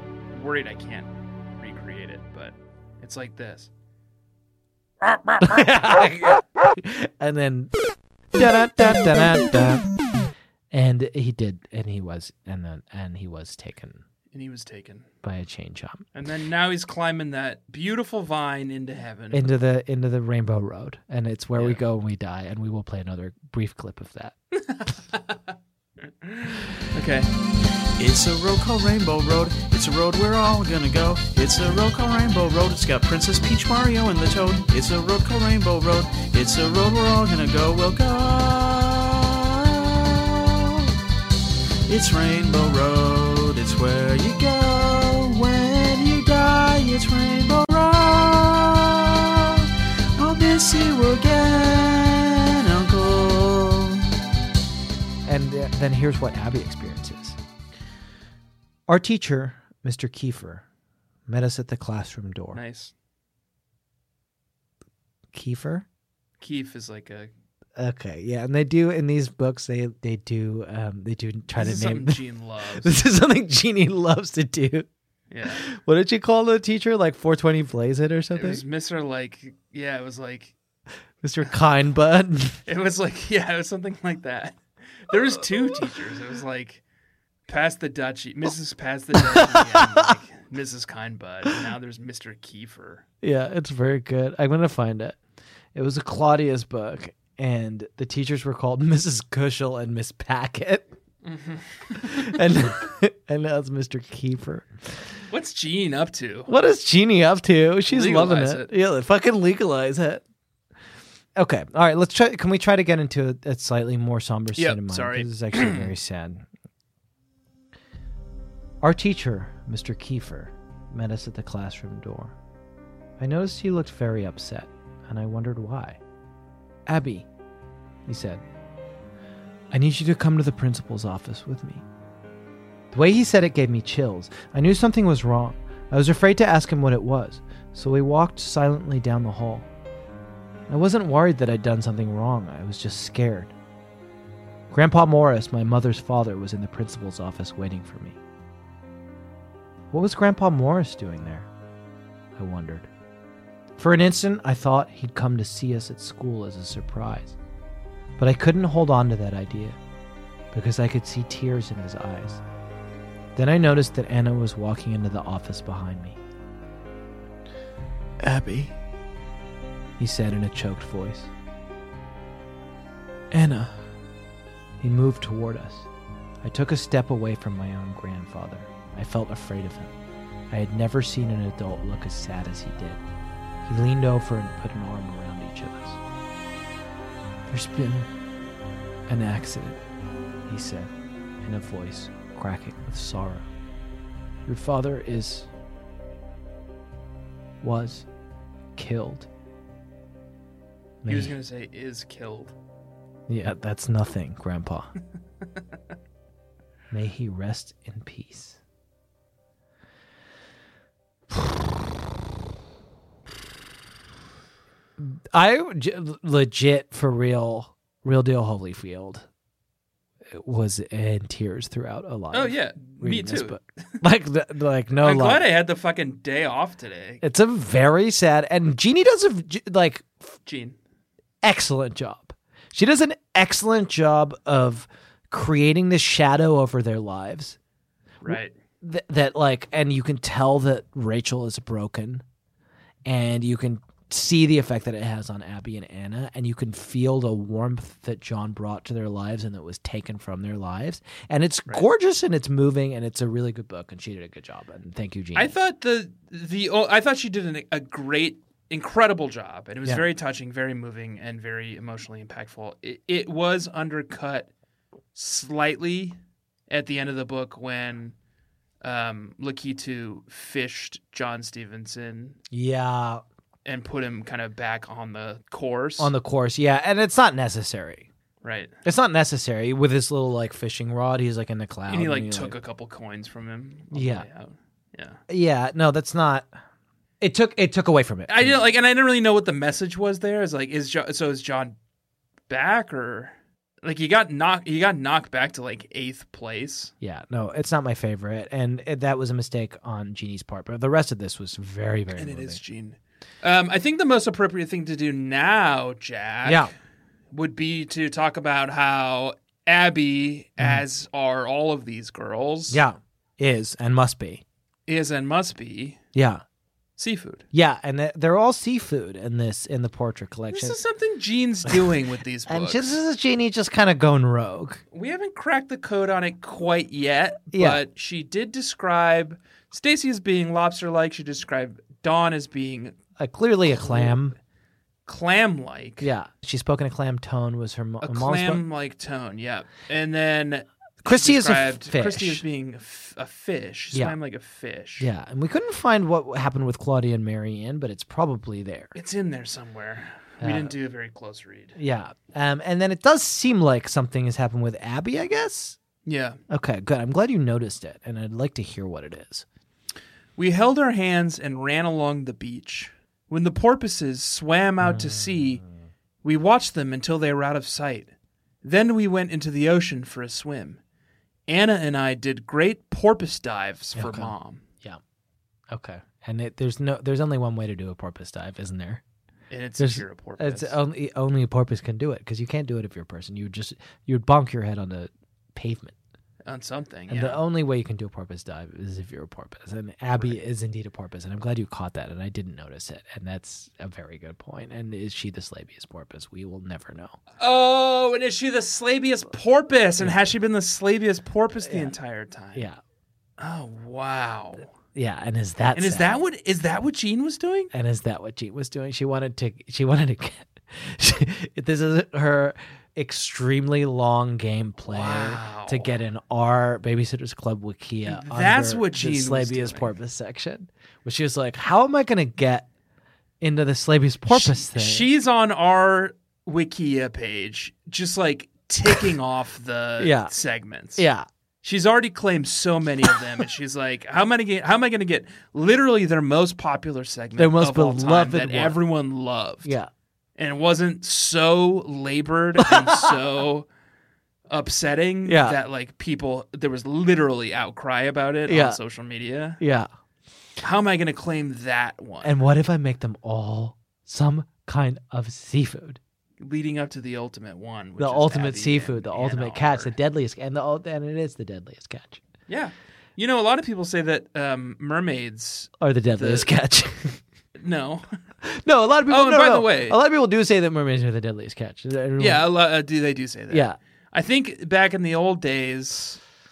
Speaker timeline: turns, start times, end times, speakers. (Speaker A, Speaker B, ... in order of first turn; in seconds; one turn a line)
Speaker A: 0.3-3.7
Speaker B: 5.4-7.7
Speaker B: 8.3-9.8
Speaker B: 10.7-14.0
Speaker A: 14.3-15.1
Speaker B: 15.2-16.1
Speaker A: 16.1-19.5
Speaker B: 19.3-24.4
Speaker A: 21.6-21.8
Speaker A: 24.6-25.4
Speaker A: 26.2-27.3
Speaker C: 28.0-40.9
Speaker C: 41.9-54.1
Speaker B: 55.3-57.4
Speaker B: 58.9-60.6
Speaker B: 61.3-62.6
Speaker A: 62.5-62.9
Speaker B: 65.3-65.9
Speaker A: 66.4-67.3
Speaker B: 67.8-74.9
Speaker A: 71.6-73.0
Speaker A: 75.3-75.7
Speaker B: 75.5-78.6
Speaker A: 78.3-80.5
Speaker B: 81.2-82.6
Speaker A: 82.7-86.8
Speaker A: 87.5-93.0
Speaker B: 89.2-90.1
Speaker B: 93.2-95.2
Speaker B: 95.7-100.9
Speaker A: 101.2-102.3
Speaker B: 102.0-105.0
Speaker A: 105.3-106.5
Speaker B: 106.5-110.2
Speaker A: 107.9-108.7
Speaker B: 111.4-116.5
Speaker A: 114.6-115.9
Speaker B: 118.8-122.3
Speaker B: 123.2-126.0
Speaker B: 126.9-127.3
Speaker B: 128.1-128.4
Speaker B: 129.7-131.8
Speaker B: 132.9-139.7
Speaker B: 140.7-143.5
Speaker B: 144.7-148.2
Speaker B: 149.9-151.5
Speaker B: 152.4-152.9
Speaker B: 153.8-157.4
Speaker B: 158.2-159.8
Speaker B: 160.5-162.4
Speaker B: 163.3-166.2
Speaker B: 168.2-168.7
Speaker B: 170.0-171.3
Speaker B: 173.3-173.8
Speaker B: 174.8-175.9
Speaker B: 176.4-179.9
Speaker B: 180.5-183.0
Speaker B: 183.7-186.0
Speaker B: 187.5-188.1
Speaker B: 189.1-189.8
Speaker B: 190.5-190.9
Speaker B: 191.4-193.5
Speaker B: 194.5-195.5
Speaker B: 197.6-198.1
Speaker B: 198.8-199.3
Speaker B: 201.0-201.3
Speaker A: 201.1-202.6
Speaker B: 203.3-204.9
Speaker B: 206.9-208.6
Speaker B: 215.0-219.3
Speaker B: 220.3-225.5
Speaker A: 222.3-224.0
Speaker A: 225.0-227.2
Speaker B: 227.2-230.3
Speaker A: 230.5-230.8
Speaker B: 231.4-237.6
Speaker A: 238.2-238.5
Speaker B: 238.3-242.2
Speaker B: 243.1-255.6
Speaker A: 255.3-264.5
Speaker A: 265.1-266.2
Speaker A: 266.7-268.1
Speaker A: 268.8-272.4
Speaker B: 272.5-273.2
Speaker A: 273.6-276.1
Speaker B: 276.0-278.1
Speaker A: 278.4-278.8
Speaker B: 278.9-282.6
Speaker A: 281.9-285.2
Speaker B: 283.9-284.3
Speaker B: 285.3-286.5
Speaker B: 287.2-288.6
Speaker A: 288.3-291.8
Speaker A: 292.5-296.9
Speaker B: 297.0-302.6
Speaker A: 302.1-306.7
Speaker B: 306.4-306.7
Speaker A: 307.3-312.8
Speaker B: 312.7-314.4
Speaker A: 314.9-316.0
Speaker B: 316.1-316.4
Speaker A: 317.0-317.5
Speaker B: 317.5-320.8
Speaker A: 320.5-322.9
Speaker B: 322.5-324.8
Speaker A: 324.9-333.0
Speaker B: 327.5-327.8
Speaker B: 333.2-334.4
Speaker A: 333.7-334.2
Speaker A: 335.1-336.1
Speaker B: 336.0-338.6
Speaker A: 338.0-345.1
Speaker B: 341.0-342.4
Speaker B: 345.0-348.9
Speaker A: 348.9-351.8
Speaker B: 350.4-350.8
Speaker B: 351.8-355.8
Speaker A: 356.1-356.4
Speaker B: 356.5-359.5
Speaker A: 360.4-365.6
Speaker B: 364.8-365.7
Speaker A: 366.2-368.1
Speaker A: 368.6-370.8
Speaker A: 371.5-374.6
Speaker B: 374.0-375.0
Speaker B: 375.7-379.0
Speaker A: 379.5-380.8
Speaker B: 379.8-385.9
Speaker A: 386.4-387.4
Speaker B: 387.1-397.2
Speaker A: 397.4-402.7
Speaker B: 400.0-400.3
Speaker B: 401.6-401.9
Speaker A: 403.4-404.7
Speaker B: 404.9-406.2
Speaker A: 405.8-407.7
Speaker B: 407.7-422.7
Speaker A: 414.9-415.9
Speaker A: 418.1-419.9
Speaker B: 423.4-425.1
Speaker A: 424.3-431.1
Speaker B: 430.0-430.3
Speaker B: 431.0-431.3
Speaker A: 431.6-439.7
Speaker B: 437.4-438.8
Speaker B: 439.6-439.9
Speaker A: 440.4-443.7
Speaker B: 442.6-443.1
Speaker A: 444.5-449.6
Speaker B: 445.3-445.6
Speaker B: 448.5-448.8
Speaker B: 449.6-449.9
Speaker A: 450.6-452.5
Speaker B: 452.2-456.0
Speaker A: 456.4-459.9
Speaker B: 458.0-462.2
Speaker A: 462.5-466.5
Speaker B: 465.8-467.2
Speaker A: 467.6-468.1
Speaker B: 468.4-472.4
Speaker A: 469.1-470.0
Speaker A: 472.2-476.2
Speaker B: 473.5-473.8